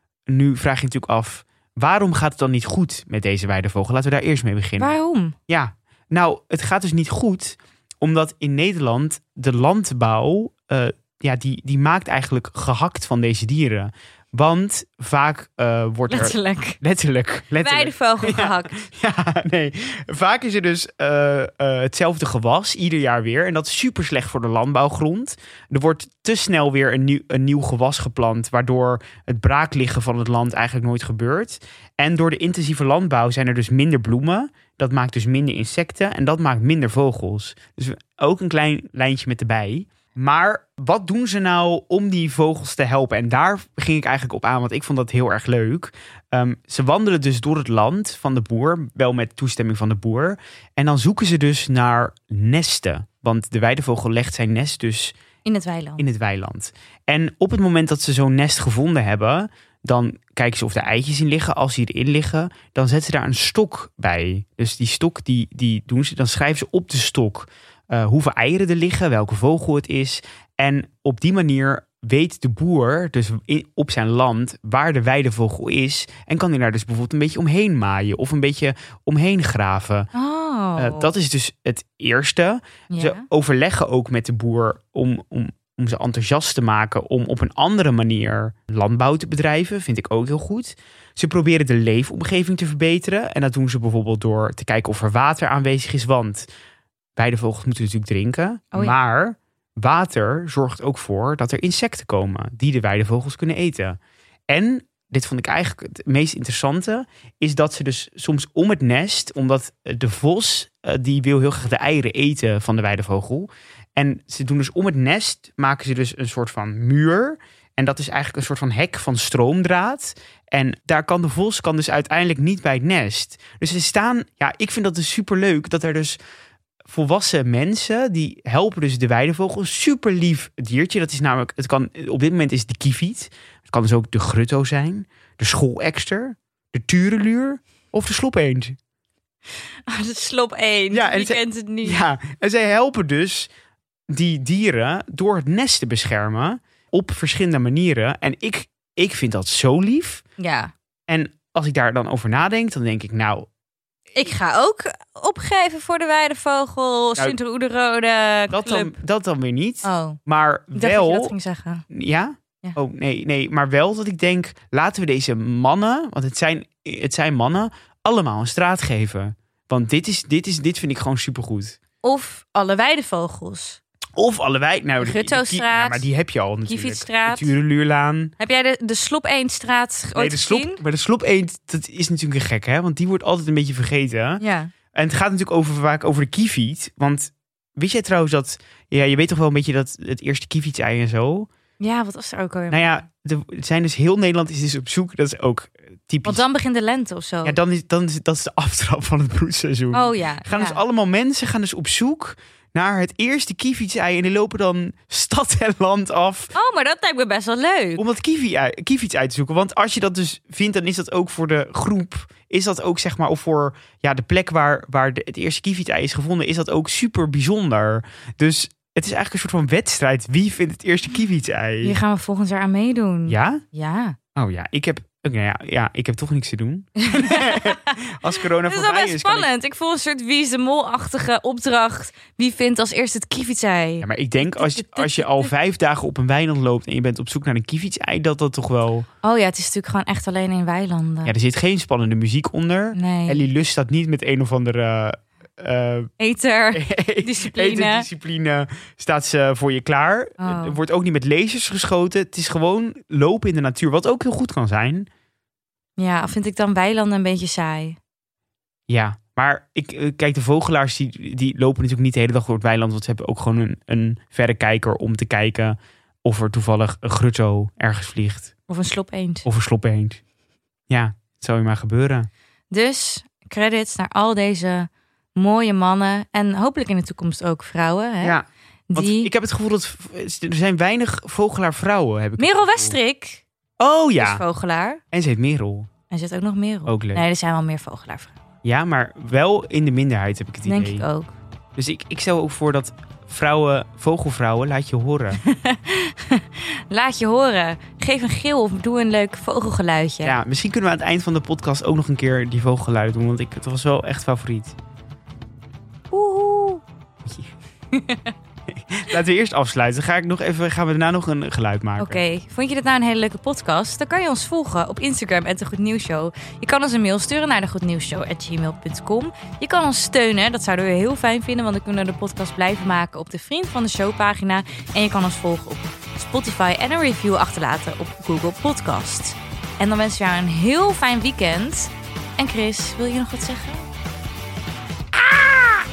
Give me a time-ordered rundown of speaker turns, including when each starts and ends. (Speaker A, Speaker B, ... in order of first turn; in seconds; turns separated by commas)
Speaker A: 0.3-4.9, Speaker B: 4.8-5.4, Speaker A: 5.5-55.2, Speaker B: 16.1-16.8, Speaker B: 17.6-18.8, Speaker B: 55.5-56.1, Speaker A: 56.0-80.1, Speaker B: 80.2-81.1, Speaker A: 80.8-96.5, Speaker B: 82.9-83.3, Speaker A: 97.2-104.0, Speaker A: 104.5-126.2, Speaker A: 126.9-138.8, Speaker B: 139.9-142.1, Speaker A: 140.9-143.5, Speaker A: 144.1-150.2, Speaker B: 150.4-150.7, Speaker A: 151.1-153.5, Speaker B: 154.2-158.9, Speaker A: 158.5-161.3, Speaker B: 159.8-160.2, Speaker B: 160.7-161.8, Speaker A: 161.9-171.8, Speaker B: 172.0-173.8, Speaker A: 174.2-178.3, Speaker B: 175.0-176.1, Speaker B: 176.7-177.6, Speaker B: 178.4-180.8, Speaker A: 180.2-184.4, Speaker B: 184.4-184.7, Speaker A: 184.9-191.5, Speaker B: 191.8-193.0, Speaker A: 192.7-196.4, Speaker B: 196.2-197.6, Speaker A: 197.4-206.5, Speaker B: 199.9-200.8, Speaker B: 206.6-208.0, Speaker A: 208.0-222.0, Speaker B: 221.8-224.2, Speaker A: 223.3-223.6, Speaker A: 224.4-229.5, Speaker B: 227.0-227.9, Speaker B: 228.6-235.5, Speaker A: 234.0-239.1, Speaker B: 239.2-241.3, Speaker A: 241.2-246.1, Speaker B: 242.9-243.5, Speaker B: 246.2-248.1, Speaker A: 246.7-255.1, Speaker B: 250.4-250.8, Speaker B: 256.0-258.0, Speaker A: 258.9-268.5, Speaker B: 268.7-269.5, Speaker A: 269.4-270.2, Speaker A: 270.9-272.3, Speaker B: 272.7-278.4, Speaker A: 278.2-283.0, Speaker B: 278.9-279.3, Speaker B: 282.4-283.4, Speaker A: 283.8-284.4, Speaker B: 284.2-285.0, Speaker A: 285.1-285.9, Speaker B: 286.1-288.4, Speaker A: 286.9-287.2, Speaker A: 288.6-291.1, Speaker B: 290.7-291.4, Speaker A: 291.8-295.4, Speaker B: 295.4-300.4, Speaker A: 300.2-304.8, Speaker B: 306.1-306.8, Speaker A: 307.2-307.5, Speaker B: 307.9-308.3, Speaker A: 308.7-312.2, Speaker B: 312.0-333.9